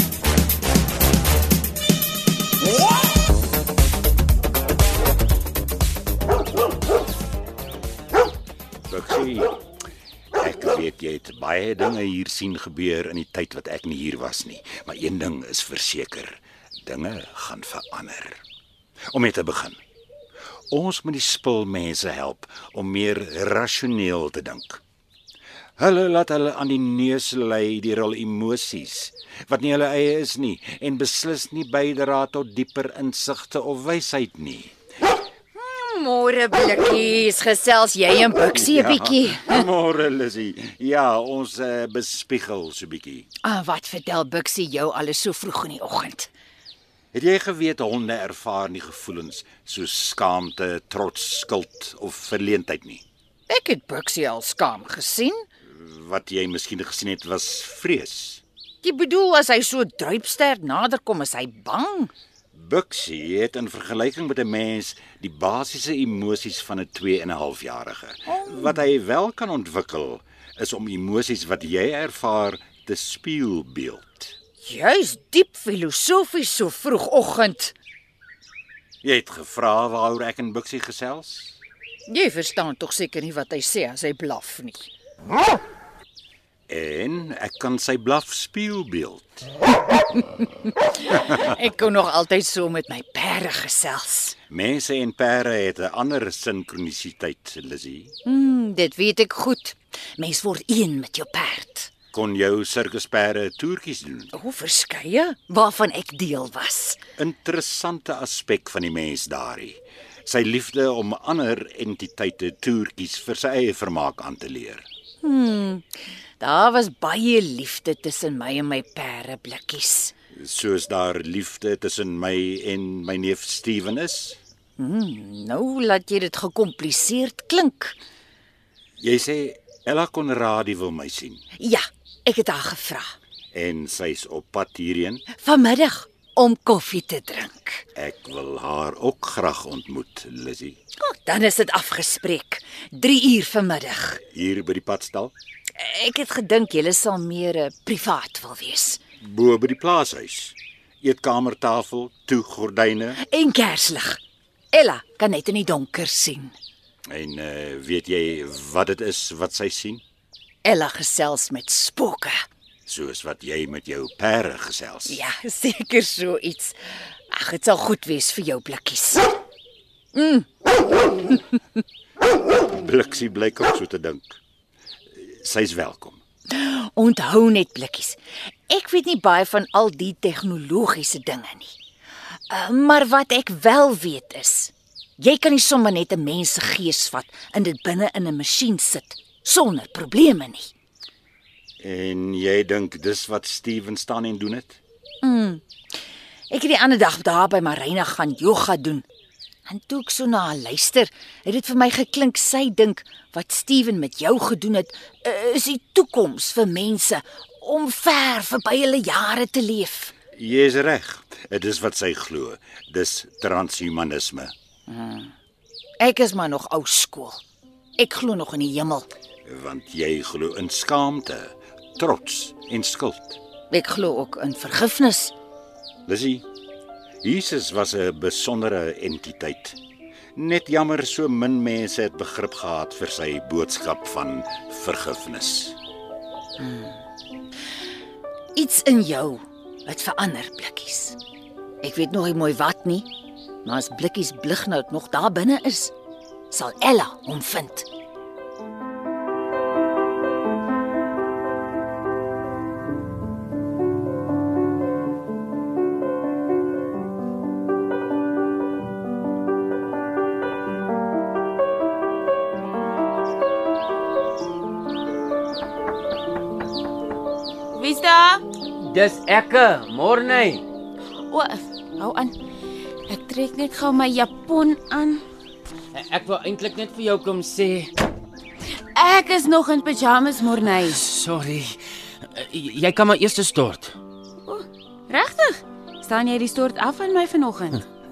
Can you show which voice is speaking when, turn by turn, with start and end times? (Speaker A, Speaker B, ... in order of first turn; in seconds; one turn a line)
Speaker A: 8.9-9.5
Speaker A: 10.4-18.4
Speaker A: 19.1-19.8
Speaker A: 20.7-24.8
Speaker A: 25.8-34.7
Speaker B: 35.6-39.5
Speaker A: 38.5-43.3
Speaker B: 43.4-46.3
Speaker A: 47.1-53.0
Speaker B: 53.5-55.5
Speaker A: 55.7-58.4
Speaker B: 58.8-62.1
Speaker A: 62.5-74.3
Speaker B: 68.3-68.8
Speaker B: 74.6-77.7
Speaker A: 79.0-81.6
Speaker B: 82.1-84.9
Speaker A: 86.7-89.5
Speaker B: 90.7-94.4
Speaker A: 94.5-98.1
Speaker B: 98.2-101.9
Speaker A: 102.1-104.3
Speaker B: 104.3-107.0
Speaker A: 107.2-114.9
Speaker B: 115.2-115.9
Speaker B: 116.4-120.1
Speaker A: 120.4-124.4
Speaker B: 124.8-128.0
Speaker A: 129.0-131.4
Speaker B: 131.6-133.1
Speaker A: 133.5-135.3
Speaker B: 135.3-137.8
Speaker A: 137.9-140.8
Speaker B: 141.0-144.2
Speaker A: 144.3-145.3
Speaker B: 145.8-149.0
Speaker A: 149.2-153.2
Speaker B: 153.2-154.2
Speaker B: 154.7-156.6
Speaker A: 157.1-160.0
Speaker B: 160.6-162.4
Speaker A: 162.9-165.2
Speaker B: 165.1-169.3
Speaker B: 170.1-170.5
Speaker B: 171.3-171.5
Speaker A: 172.5-174.4
Speaker A: 175.1-176.2
Speaker B: 176.5-178.2
Speaker B: 178.7-181.8
Speaker B: 182.5-190.7
Speaker A: 191.8-194.8
Speaker B: 195.2-195.6
Speaker B: 196.5-199.1
Speaker B: 199.7-210.1
Speaker A: 210.4-214.5
Speaker B: 214.9-215.3
Speaker B: 216.0-217.4
Speaker B: 218.0-219.1
Speaker A: 219.5-223.4
Speaker B: 223.7-225.3
Speaker A: 226.1-226.4
Speaker A: 227.2-229.8
Speaker A: 230.4-235.8
Speaker B: 236.6-237.0
Speaker B: 238.6-241.2
Speaker B: 241.8-243.1
Speaker B: 243.6-245.9
Speaker B: 246.5-247.9
Speaker C: 267.7-268.4
Speaker D: 268.9-270.6
Speaker C: 271.3-272.4
Speaker C: 273.1-275.2
Speaker D: 275.9-277.9
Speaker C: 278.9-281.1
Speaker D: 280.9-281.8
Speaker D: 282.3-284.0
Speaker C: 284.5-287.9